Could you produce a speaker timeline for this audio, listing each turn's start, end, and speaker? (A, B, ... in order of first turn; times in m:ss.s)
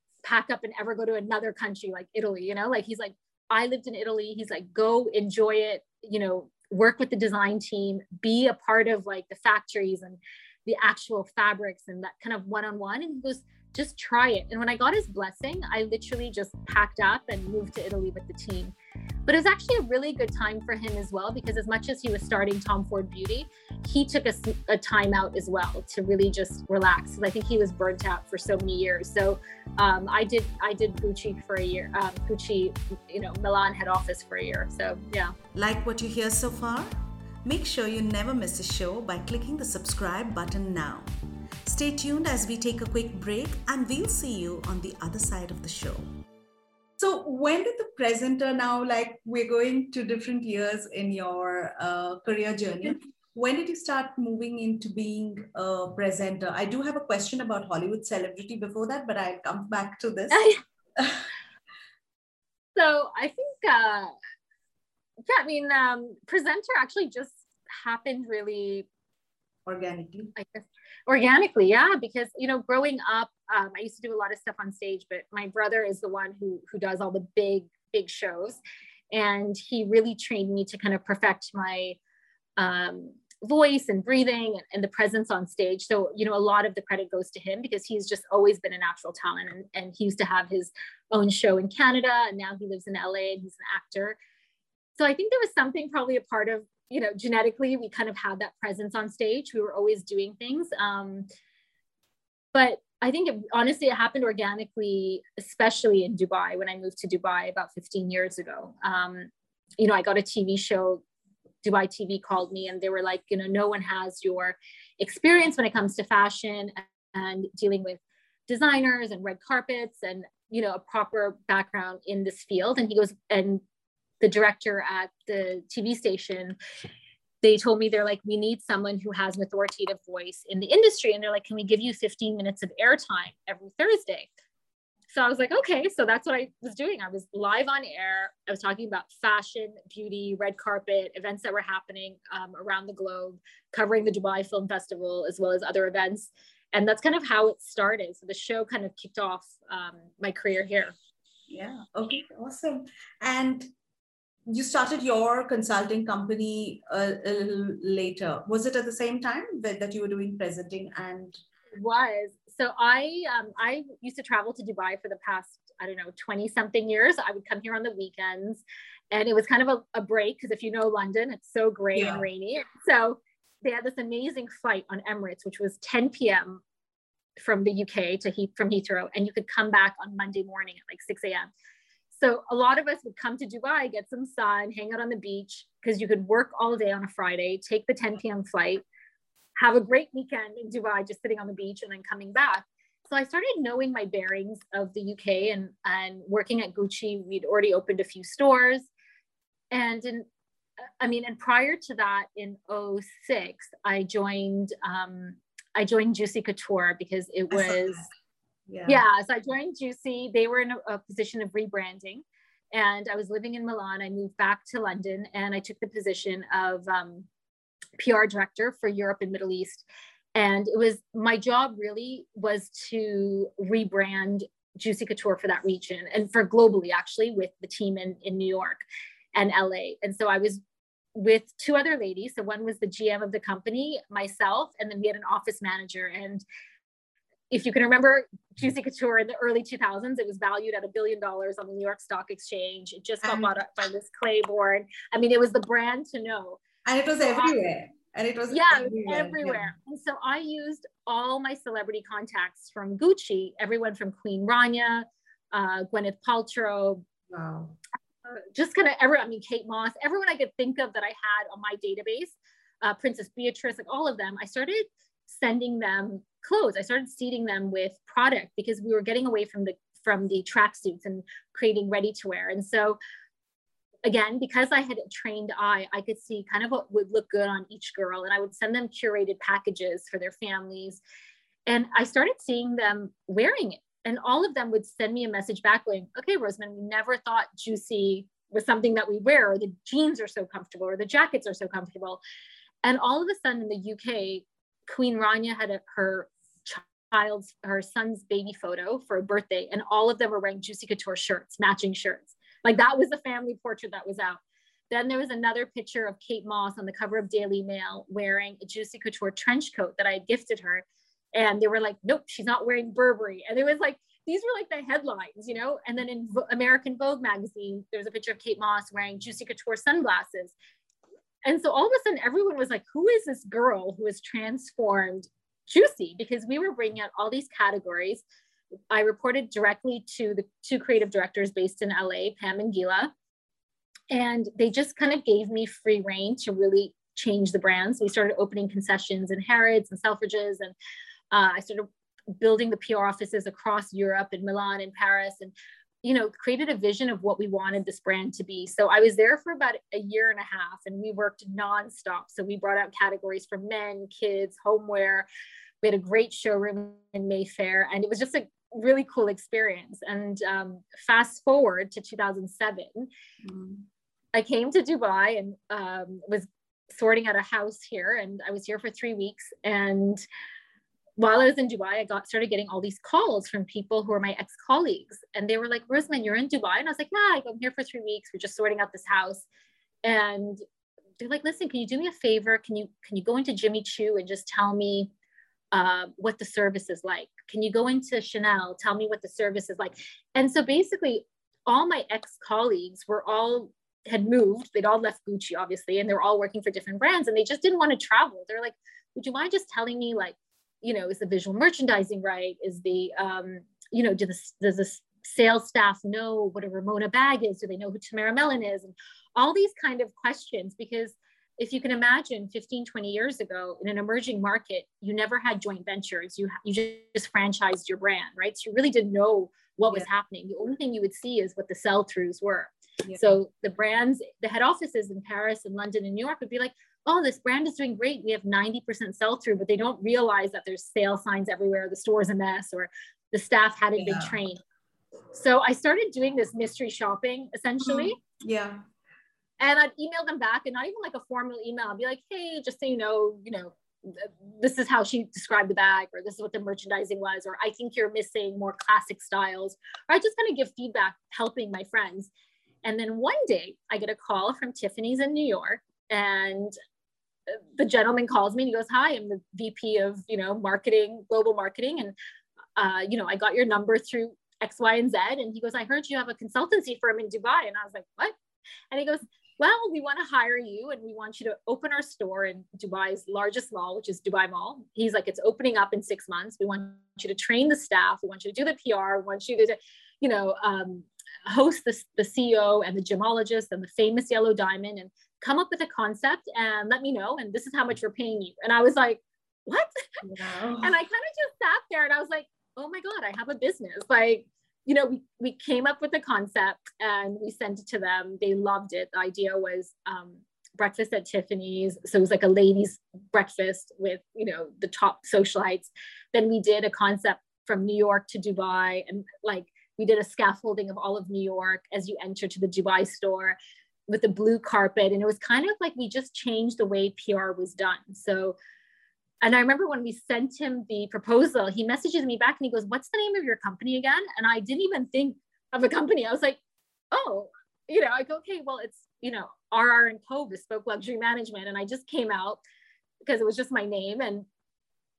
0:00.2-0:18.7 A
0:19.3-0:35.4 A
0:35.5-0:41.1 B
0:41.6-0:46.1 B
0:47.0-1:01.2 B
1:00.3-1:00.6 A
1:02.7-1:04.1 A
1:05.2-1:08.9 A
1:09.6-1:10.3 B
1:10.4-1:18.6 A
1:19.1-1:22.0 A
1:22.6-1:34.2 A
1:35.0-1:41.3 A
1:42.5-1:51.0 A
1:51.6-2:03.6 A
2:04.2-2:06.6 A
2:07.4-2:14.3 A
2:15.1-2:30.9 A
2:31.5-2:33.7 B
2:34.5-2:41.4 B
2:41.7-2:56.6 A
2:51.9-2:52.2 B
2:57.4-3:01.5 A
3:02.2-3:08.8 A
3:09.6-3:18.9 A
3:19.7-3:20.2 A
3:21.0-3:28.0 A
3:27.5-3:28.1 B
3:28.7-3:29.0 B
3:28.8-3:37.3 A
3:38.0-3:48.8 A
3:49.3-3:50.6 A
3:51.1-3:56.4 A
3:57.5-4:06.6 A
4:03.2-4:03.5 B
4:06.8-4:09.7 B
4:07.2-4:07.6 A
4:08.5-4:17.0 A
4:17.3-4:17.8 B
4:18.3-4:33.0 A
4:34.0-4:41.0 A
4:41.6-4:52.2 A
4:52.8-5:20.5 A
5:21.4-5:28.2 A
5:28.9-5:33.1 A
5:34.1-5:40.7 A
5:41.3-5:55.3 A
5:55.8-6:03.1 A
6:03.4-6:03.8 B
6:04.3-6:10.2 A
6:11.2-6:19.4 A
6:20.0-6:20.6 A
6:21.2-6:25.1 A
6:25.7-7:14.6 A
7:03.0-7:03.3 B
7:14.0-7:14.3 B
7:15.3-7:18.2 A
7:17.8-7:18.8 B
7:19.6-7:32.3 A
7:32.8-7:36.7 A
7:37.5-7:42.1 A
7:42.8-7:48.3 A
7:48.9-8:10.1 A
8:10.2-8:11.0 B
8:10.8-8:33.6 A
8:34.1-8:38.6 A
8:39.4-8:46.6 A
8:47.1-8:52.6 A
8:53.2-8:54.4 A